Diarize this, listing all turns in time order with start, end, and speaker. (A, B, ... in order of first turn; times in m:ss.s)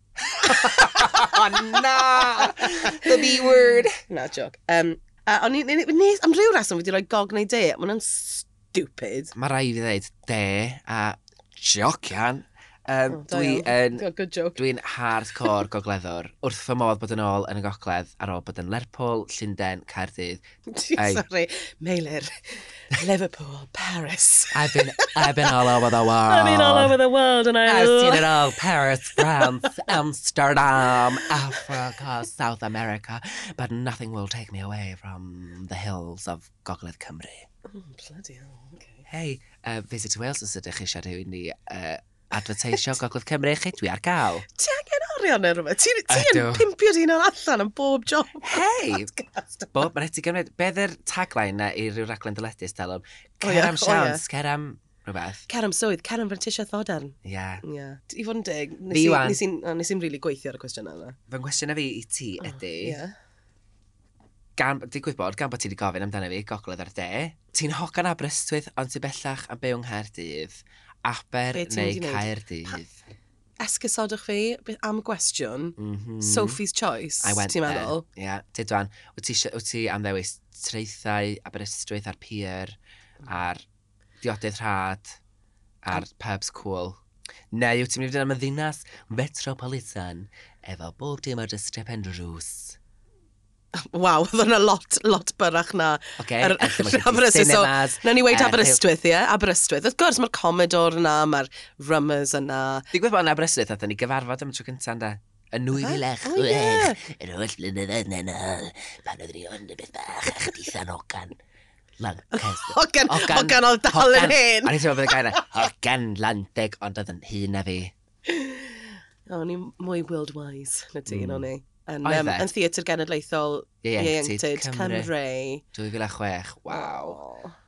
0:00.4-0:03.5 A
0:00.4-0:04.0 B
0:04.1-0:09.3 A
0:09.3-0:20.4 B
0:13.1-0:14.6 A
0:20.7-0:28.5 A
0:21.0-0:21.2 B
0:24.5-0:27.0 B
0:27.6-0:37.5 B
0:29.2-0:29.9 A
0:30.7-0:31.8 A
0:37.7-0:39.0 A
0:39.1-0:44.5 B
0:44.5-0:49.8 A
0:46.1-0:46.7 B
0:48.4-0:49.1 B
0:49.7-0:55.4 B
0:53.4-0:54.2 A
0:55.5-1:01.2 A
0:57.2-0:57.6 B
0:58.9-0:59.4 B
1:01.3-1:03.0 B
1:02.4-1:03.1 A
1:04.6-1:13.0 B
1:11.5-1:12.8 A
1:13.6-1:18.0 A
1:15.8-1:16.6 B
1:17.2-1:23.6 B
1:24.2-1:25.2 B
1:25.8-1:27.0 B
1:27.5-1:32.8 B
1:33.7-1:42.9 A
1:36.2-1:38.8 B
1:42.9-1:51.4 B
1:45.8-1:47.0 A
1:52.0-1:57.9 B
1:52.3-1:55.5 A
1:58.3-2:05.6 A
2:01.1-2:01.5 B
2:02.0-2:02.5 B
2:03.8-2:05.1 B
2:05.7-2:07.2 B
2:06.7-2:07.5 A